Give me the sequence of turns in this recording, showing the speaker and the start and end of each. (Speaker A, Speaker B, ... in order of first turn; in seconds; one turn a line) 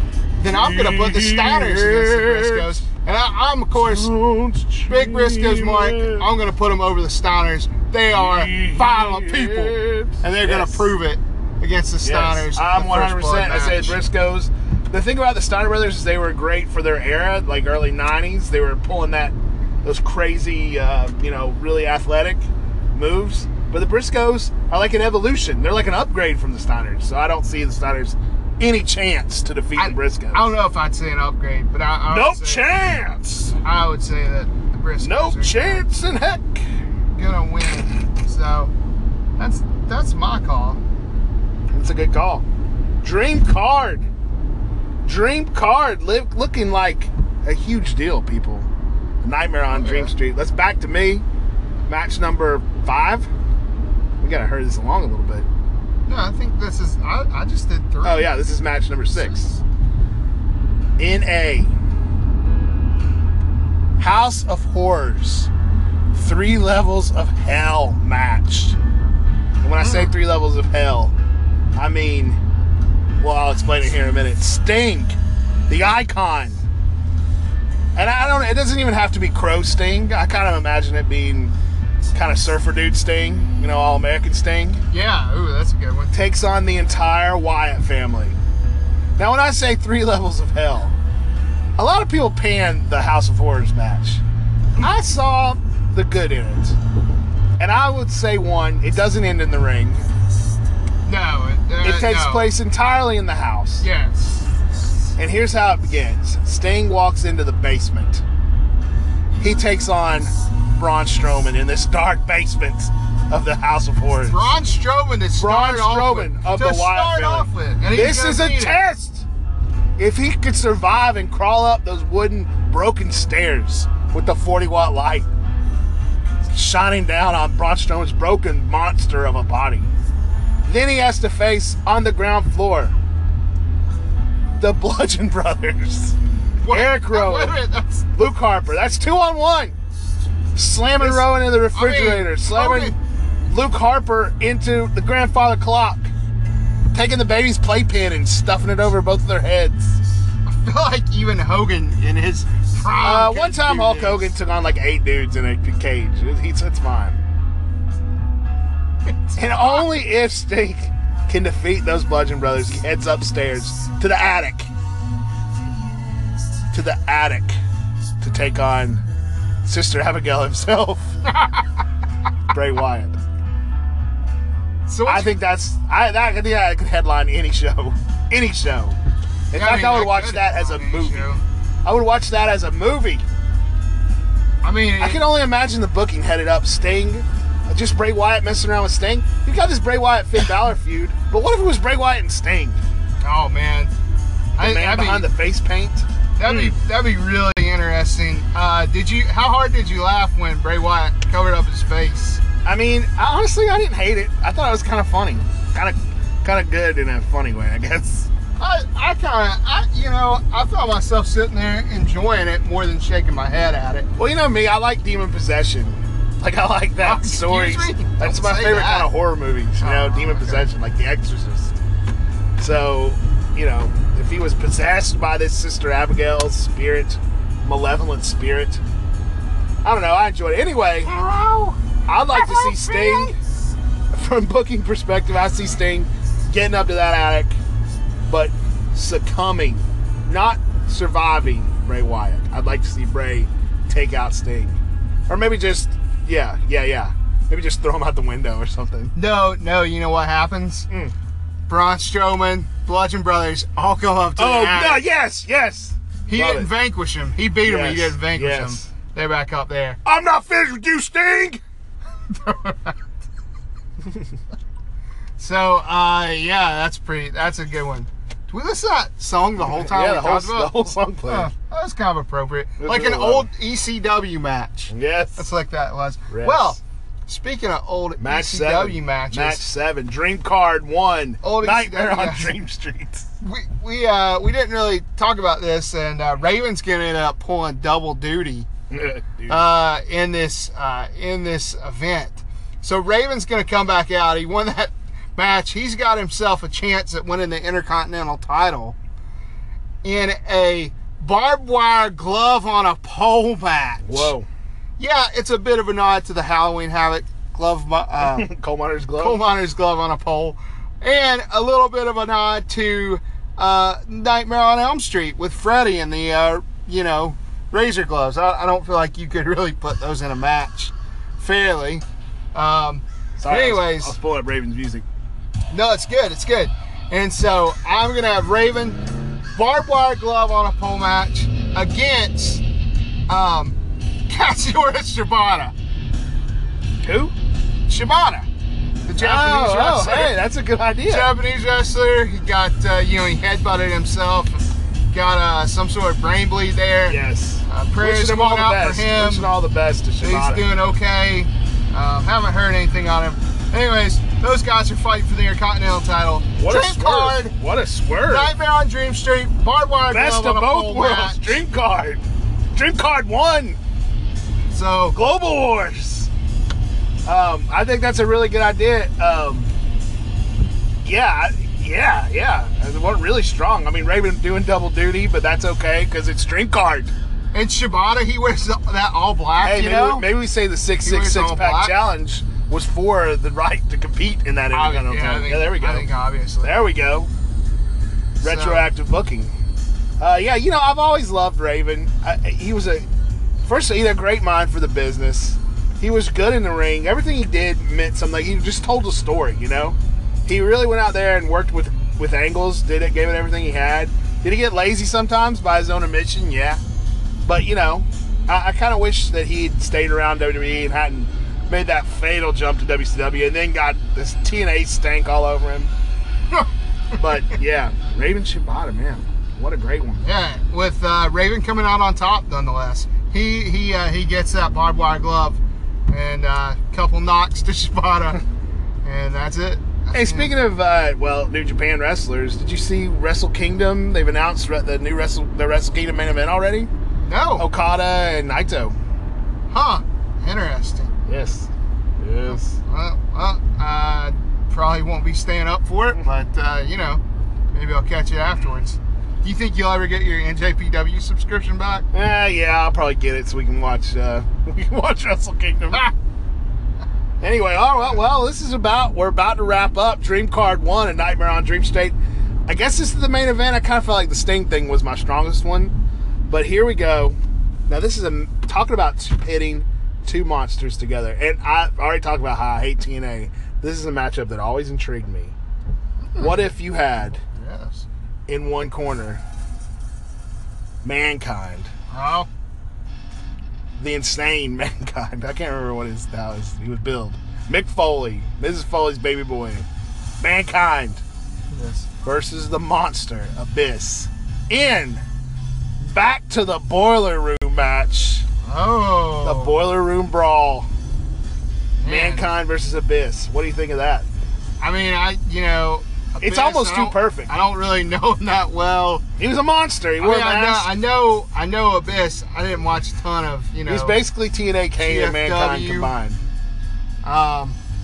Speaker A: 0.4-4.1
Speaker B: 0.5-2.8
Speaker B: 3.8-6.3
Speaker A: 4.8-14.0
Speaker B: 8.1-10.8
Speaker B: 12.0-30.5
Speaker A: 29.8-32.7
Speaker B: 32.1-33.6
Speaker A: 33.6-35.9
Speaker B: 35.0-36.6
Speaker A: 37.1-38.7
Speaker A: 39.4-40.8
Speaker B: 41.7-42.4
Speaker B: 43.0-44.1
Speaker B: 45.0-48.7
Speaker B: 49.2-51.2
Speaker A: 49.7-50.1
Speaker B: 51.9-53.3
Speaker B: 54.2-55.5
Speaker A: 56.0-58.3
Speaker B: 58.0-59.6
Speaker B: 61.0-61.7
Speaker B: 64.0-65.5
Speaker B: 66.1-68.8
Speaker B: 69.6-71.1
Speaker A: 69.8-70.1
Speaker B: 71.8-72.4
Speaker B: 73.2-75.2
Speaker B: 75.7-76.6
Speaker B: 77.9-81.5
Speaker B: 82.1-84.8
Speaker A: 84.9-86.1
Speaker B: 86.1-88.4
Speaker B: 89.2-90.9
Speaker B: 91.8-94.2
Speaker B: 94.8-96.8
Speaker B: 97.6-100.1
Speaker A: 101.0-102.5
Speaker B: 101.8-103.8
Speaker A: 103.8-104.5
Speaker B: 105.2-108.2
Speaker B: 109.4-114.5
Speaker A: 114.2-118.8
Speaker B: 115.4-119.2
Speaker B: 120.0-125.3
Speaker B: 126.5-129.9
Speaker B: 130.6-132.9
Speaker B: 134.6-136.2
Speaker A: 136.6-138.1
Speaker B: 136.7-137.6
Speaker B: 138.1-139.7
Speaker B: 140.5-142.9
Speaker A: 141.0-143.0
Speaker B: 143.5-146.1
Speaker B: 146.9-150.0
Speaker A: 150.4-154.3
Speaker B: 153.0-157.2
Speaker A: 159.2-159.9
Speaker B: 159.3-164.7
Speaker B: 166.7-167.6
Speaker B: 168.2-169.0
Speaker B: 169.6-171.2
Speaker A: 171.2-171.7
Speaker B: 172.5-173.2
Speaker A: 174.9-175.3
Speaker B: 175.1-178.9
Speaker B: 179.5-181.3
Speaker A: 179.5-181.4
Speaker B: 181.8-183.2
Speaker A: 184.6-185.2
Speaker B: 185.0-192.8
Speaker A: 193.2-193.9
Speaker A: 194.6-195.3
Speaker B: 194.6-196.7
Speaker A: 196.4-202.4
Speaker B: 202.6-208.3
Speaker A: 208.6-214.1
Speaker B: 214.2-221.7
Speaker A: 217.0-219.1
Speaker A: 219.8-220.7
Speaker B: 222.6-228.8
Speaker B: 229.8-231.1
Speaker A: 231.1-231.8
Speaker B: 232.0-233.3
Speaker A: 232.3-233.3
Speaker B: 234.1-237.6
Speaker B: 238.3-249.1
Speaker A: 249.1-250.9
Speaker A: 251.7-255.0
Speaker B: 254.4-256.7
Speaker A: 256.3-260.0
Speaker B: 257.6-258.9
Speaker B: 260.0-261.6
Speaker A: 262.3-262.9
Speaker A: 265.4-279.6
Speaker B: 269.6-271.5
Speaker B: 272.8-273.5
Speaker B: 274.9-275.4
Speaker B: 276.3-276.8
Speaker B: 278.2-283.2
Speaker A: 281.4-282.6
Speaker A: 283.4-288.7
Speaker B: 288.9-289.6
Speaker A: 289.5-298.9
Speaker A: 300.0-304.3
Speaker B: 304.0-304.5
Speaker A: 305.0-308.5
Speaker B: 308.2-309.4
Speaker A: 309.2-324.1
Speaker B: 323.4-325.0
Speaker A: 325.7-329.0
Speaker A: 329.5-332.6
Speaker A: 333.3-333.8
Speaker A: 334.3-335.7
Speaker B: 337.0-337.3
Speaker A: 337.9-338.5
Speaker A: 339.1-340.4
Speaker B: 339.2-341.3
Speaker A: 341.1-349.5
Speaker B: 347.1-350.6
Speaker A: 350.2-357.5
Speaker B: 356.6-358.5
Speaker A: 358.2-361.6
Speaker B: 360.1-363.8
Speaker A: 364.7-365.2
Speaker B: 365.1-366.3
Speaker B: 367.2-369.7
Speaker B: 371.0-377.1
Speaker A: 377.5-380.3
Speaker B: 379.6-386.1
Speaker A: 381.0-381.9
Speaker A: 384.7-386.8
Speaker B: 386.6-387.3
Speaker B: 388.4-389.5
Speaker A: 388.4-388.9
Speaker B: 390.2-393.1
Speaker B: 393.6-406.8
Speaker B: 407.4-415.9
Speaker B: 417.1-420.2
Speaker A: 420.2-428.4
Speaker A: 429.0-430.5
Speaker B: 430.1-436.9
Speaker A: 437.2-437.7
Speaker B: 437.6-438.9
Speaker A: 439.7-441.1
Speaker B: 441.3-442.8
Speaker A: 442.8-447.2
Speaker A: 447.7-452.1
Speaker B: 452.1-456.1
Speaker B: 457.4-462.1
Speaker B: 462.7-465.9
Speaker B: 466.5-475.5
Speaker B: 476.4-477.4
Speaker A: 477.5-478.1
Speaker B: 478.5-479.4
Speaker B: 481.0-481.9
Speaker A: 482.1-482.5
Speaker B: 484.0-489.9
Speaker B: 490.4-491.2
Speaker A: 491.7-492.1
Speaker B: 492.2-495.2
Speaker B: 496.0-498.4
Speaker A: 498.6-499.8
Speaker B: 499.4-500.9
Speaker A: 502.0-502.5
Speaker B: 502.0-504.2
Speaker A: 504.8-509.2
Speaker B: 506.4-507.5
Speaker B: 509.4-510.9
Speaker A: 510.2-514.2
Speaker B: 513.9-516.4
Speaker A: 515.0-516.1
Speaker A: 517.2-517.8